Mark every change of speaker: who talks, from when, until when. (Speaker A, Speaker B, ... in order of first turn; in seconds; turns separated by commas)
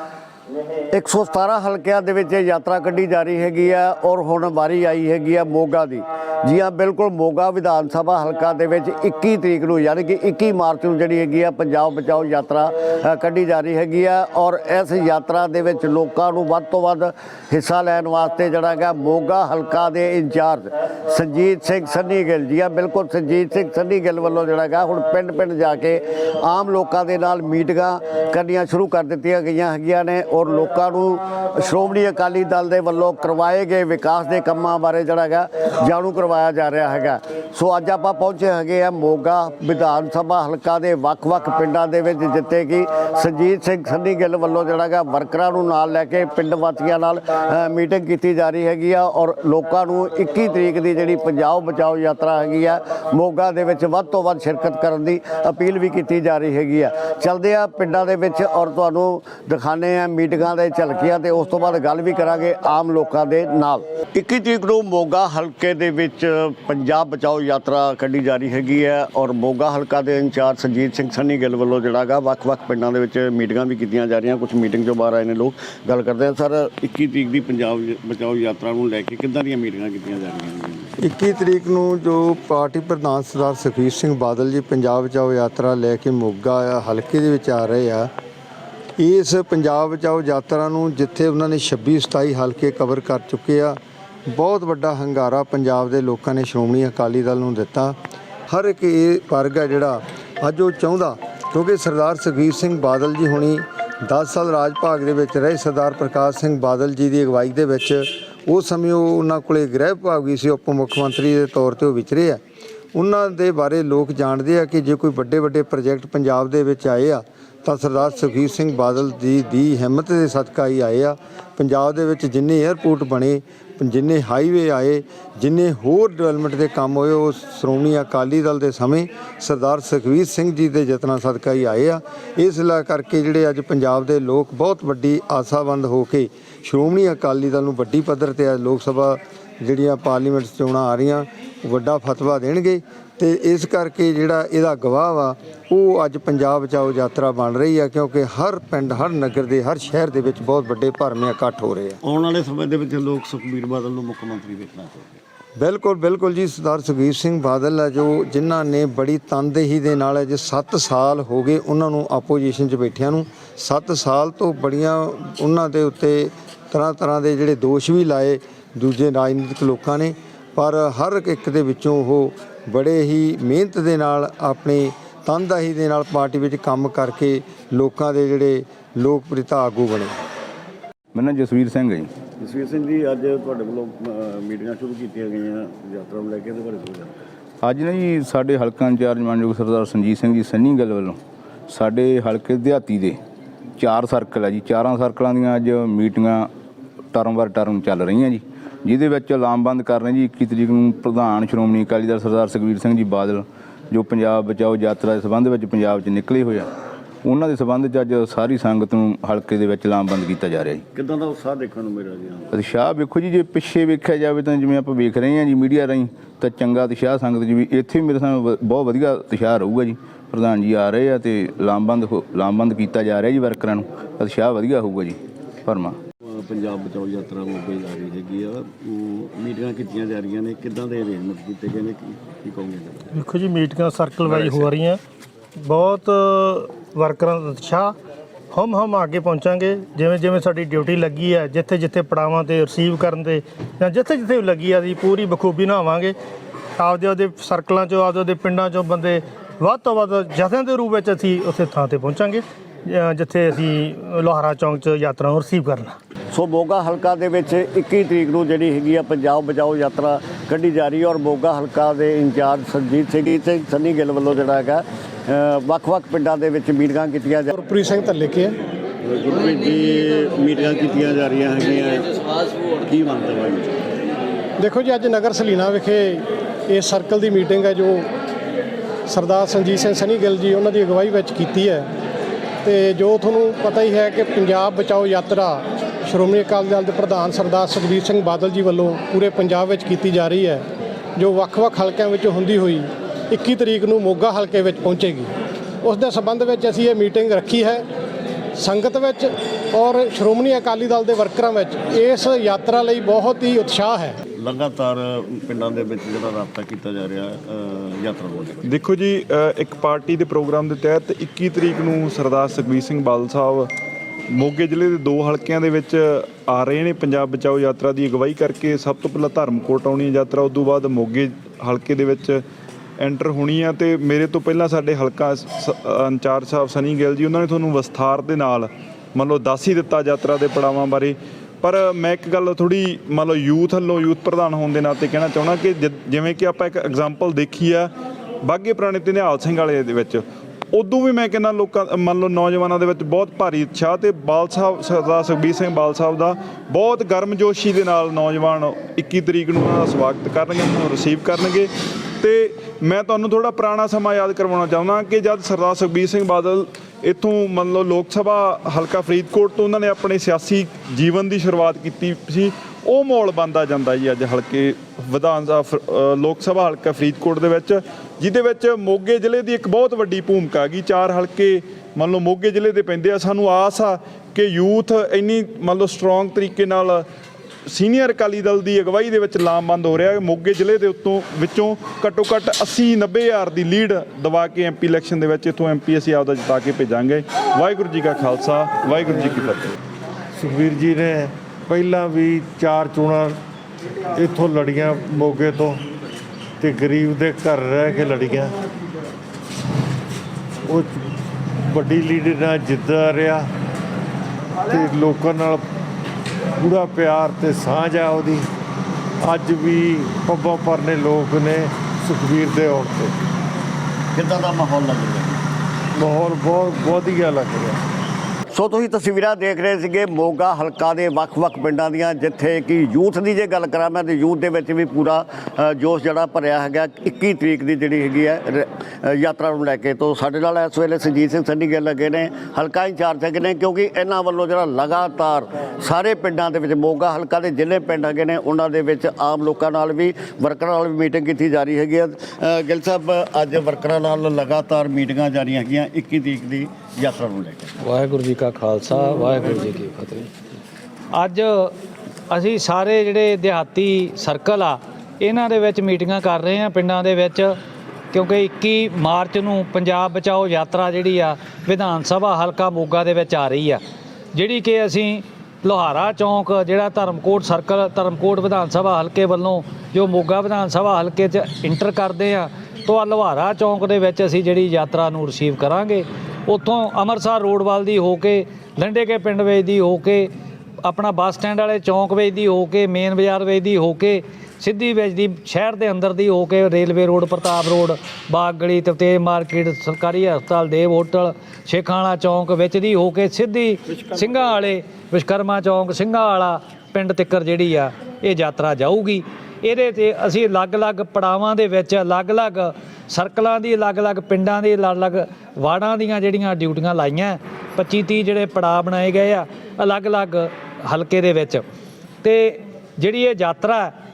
Speaker A: 0.9-80.9, Speaker B: 81.0-88.1, Speaker B: 89.0-93.8, Speaker B: 94.3-98.0, Speaker B: 98.5-112.4, Speaker B: 113.0-152.0, Speaker A: 152.0-155.2, Speaker B: 155.6-180.2, Speaker C: 181.1-182.1, Speaker A: 182.4-187.1, Speaker C: 187.6-193.2, Speaker C: 193.8-196.5, Speaker C: 197.1-206.7, Speaker C: 207.2-210.8, Speaker A: 210.9-212.5, Speaker C: 212.5-226.0, Speaker A: 226.3-233.1, Speaker D: 233.2-235.0, Speaker C: 234.3-234.7, Speaker D: 235.6-237.9, Speaker D: 238.5-246.1, Speaker D: 246.8-255.9, Speaker A: 256.3-267.5, Speaker E: 267.5-268.6, Speaker A: 269.0-273.8, Speaker E: 274.6-278.1, Speaker E: 279.1-281.9, Speaker E: 282.6-290.6, Speaker E: 291.2-295.3, Speaker E: 295.8-297.8, Speaker E: 298.6-304.2, Speaker A: 304.4-308.6, Speaker F: 308.6-313.7, Speaker F: 314.3-322.4, Speaker F: 323.0-337.9, Speaker F: 338.4-351.7, Speaker F: 352.2-377.1, Speaker F: 377.7-389.7, Speaker G: 390.4-393.4, Speaker G: 394.2-395.8, Speaker G: 396.6-398.5, Speaker G: 400.7-401.0, Speaker G: 401.7-403.5, Speaker G: 404.7-405.6, Speaker G: 406.6-408.5, Speaker G: 409.2-413.1, Speaker A: 414.1-415.4, Speaker G: 416.0-417.8, Speaker A: 418.5-447.7, Speaker H: 447.8-450.3, Speaker H: 451.1-451.7, Speaker H: 452.3-457.6, Speaker H: 458.1-463.8, Speaker H: 464.3-480.3, Speaker H: 480.9-511.6, Speaker H: 512.2-513.9